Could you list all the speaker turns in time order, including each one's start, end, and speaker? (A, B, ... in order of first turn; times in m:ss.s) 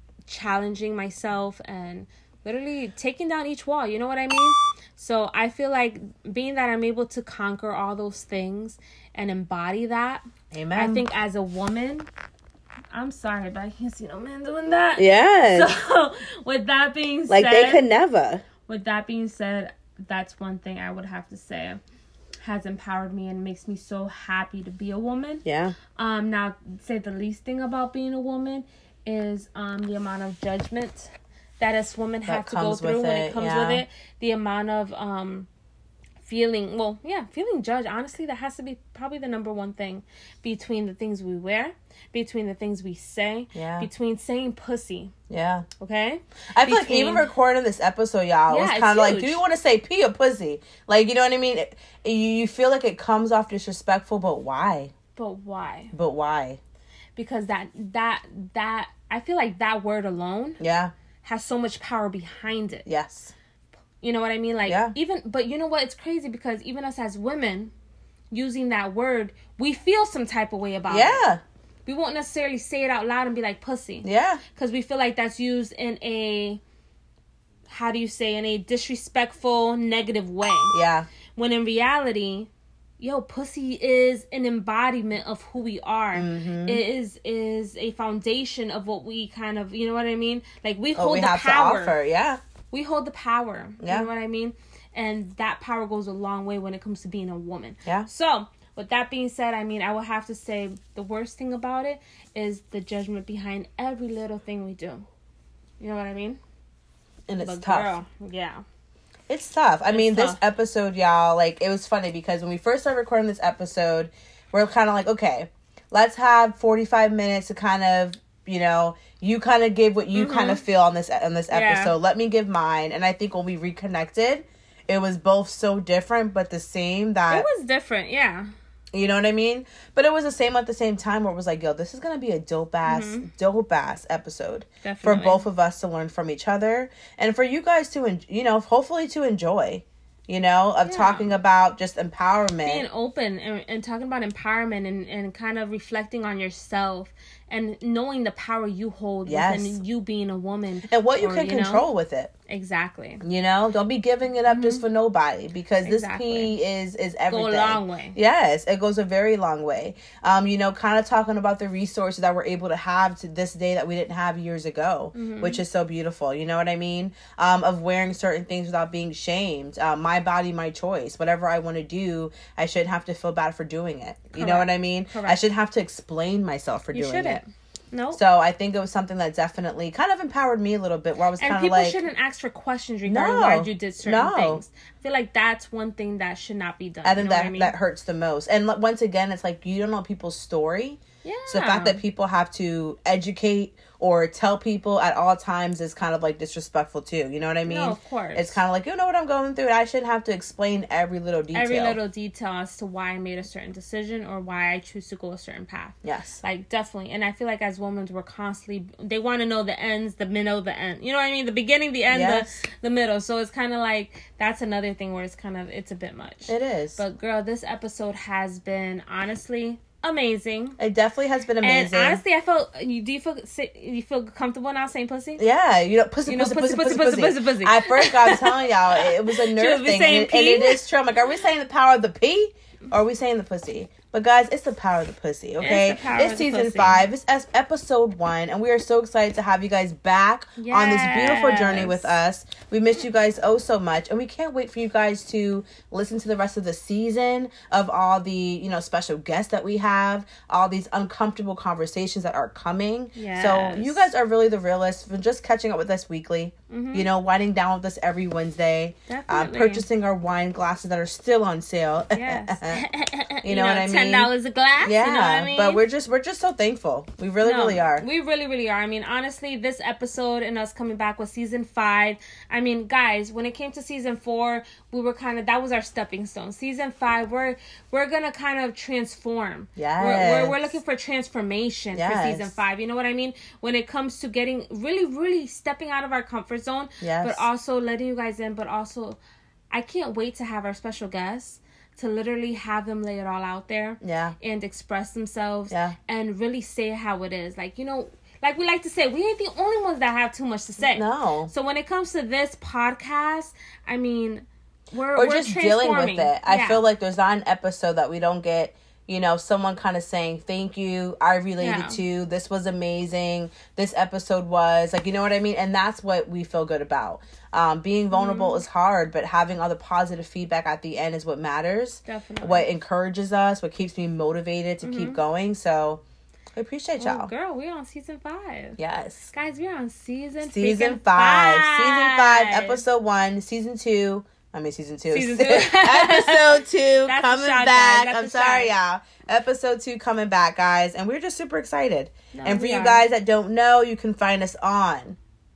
0:00.3-0:12.1 A
0:10.5-0:11.0 B
0:12.9-0:17.8 A
0:15.0-0:15.7 B
0:17.3-0:18.4 B
0:18.7-0:21.8 A
0:22.4-0:25.4 A
0:25.4-0:25.8 B
0:26.0-0:35.5 A
0:32.3-0:33.8 B
0:36.2-0:45.1 A
0:43.5-0:43.9 B
0:45.3-0:45.7 B
0:45.8-0:47.3 A
0:46.5-0:54.9 B
0:48.5-0:49.4 A
0:55.2-0:55.9 A
0:55.9-0:56.6 B
0:57.2-1:00.6 A
1:00.6-1:00.9 B
1:01.2-1:02.9 A
1:02.9-1:03.3 B
1:04.0-1:07.7 A
1:04.7-1:05.0 B
1:08.3-1:11.2 A
1:10.9-1:11.4 B
1:11.9-1:16.6 A
1:14.0-1:14.4 B
1:17.7-1:20.8 A
1:20.7-1:21.1 B
1:21.4-1:22.5 A
1:23.0-1:32.0 A
1:26.1-1:26.8 B
1:31.0-1:32.4 B
1:32.7-1:45.1 A
1:33.8-1:34.1 B
1:45.8-1:46.4 A
1:47.3-1:47.9 B
1:47.4-1:48.6 A
1:49.3-2:07.5 B
1:49.9-1:50.4 A
2:00.1-2:00.6 A
2:01.5-2:02.0 A
2:07.3-2:08.5 A
2:08.9-2:22.8 B
2:12.8-2:13.3 A
2:14.8-2:15.4 A
2:20.8-2:21.3 A
2:22.6-2:31.9 A
2:29.3-2:29.8 B
2:30.9-2:32.3 B
2:32.5-2:33.2 A
2:33.2-2:57.4 B
2:34.5-2:34.8 A
2:35.8-2:36.6 A
2:37.3-2:38.2 A
2:45.1-2:45.6 A
2:54.3-2:55.4 A
2:56.9-2:58.2 A
2:58.1-3:02.0 B
3:01.4-3:07.8 A
3:03.1-3:04.6 B
3:07.0-3:22.0 B
3:11.2-3:12.0 A
3:17.6-3:18.6 A
3:21.5-3:40.8 A
3:26.0-3:26.4 B
3:32.1-3:32.5 B
3:36.5-3:37.0 B
3:40.8-3:42.2 B
3:41.6-3:45.4 A
3:45.4-4:22.8 B
3:46.3-3:50.8 A
3:55.6-3:57.0 A
4:00.6-4:02.1 A
4:13.2-4:14.0 A
4:16.7-4:17.1 A
4:19.1-4:19.8 A
4:22.1-4:25.8 A
4:23.4-4:28.0 B
4:27.4-4:49.2 A
4:39.8-4:40.8 B
4:41.9-4:42.6 B
4:47.0-4:47.4 B
4:49.7-5:06.8 A
4:54.0-4:54.4 B
4:55.7-4:56.0 B
5:00.8-5:01.5 B
5:05.2-5:26.0 B
5:11.6-5:12.0 A
5:18.1-5:18.6 A
5:22.1-5:22.7 A
5:24.8-5:25.2 A
5:26.6-5:27.3 B
5:27.0-5:28.8 A
5:28.8-5:29.3 B
5:29.3-5:32.8 A
5:30.4-5:45.2 B
5:35.1-5:38.7 A
5:42.3-5:43.0 A